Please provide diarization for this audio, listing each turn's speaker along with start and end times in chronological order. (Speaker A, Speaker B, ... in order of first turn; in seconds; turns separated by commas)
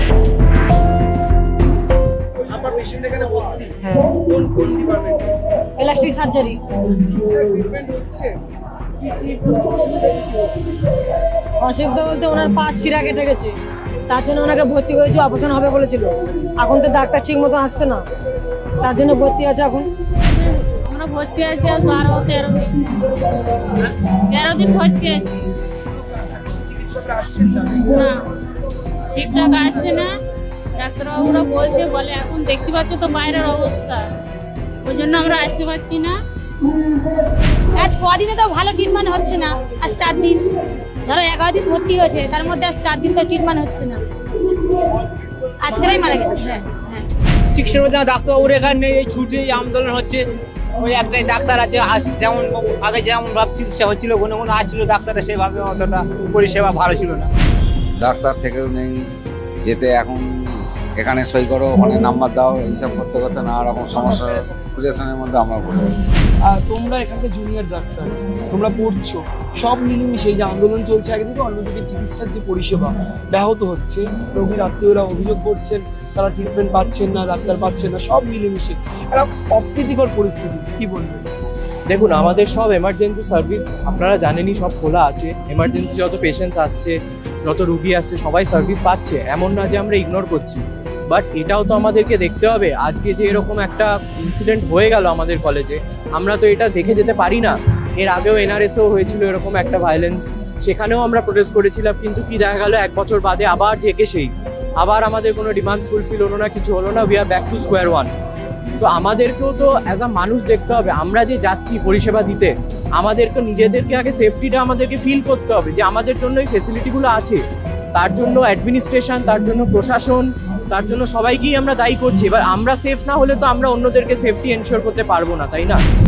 Speaker A: 2.5-5.2, Speaker B: 5.8-6.6, Speaker A: 7.0-8.3, Speaker A: 9.0-10.7, Speaker B: 11.6-13.5, Speaker B: 14.1-18.0, Speaker B: 18.8-19.9, Speaker C: 20.3-22.7, Speaker C: 23.8-25.3, Speaker A: 26.0-28.0, Speaker C: 27.9-28.2, Speaker C: 29.1-30.1, Speaker C: 30.8-34.1, Speaker C: 34.8-36.2, Speaker D: 37.8-40.5, Speaker D: 41.0-44.0, Speaker D: 45.6-47.0, Speaker E: 47.6-50.2, Speaker E: 50.8-57.3, Speaker F: 58.0-59.1, Speaker F: 59.6-60.3, Speaker F: 61.0-66.0, Speaker A: 66.4-81.2, Speaker G: 81.9-108.1, Speaker G: 108.8-117.4, Speaker G: 117.9-125.8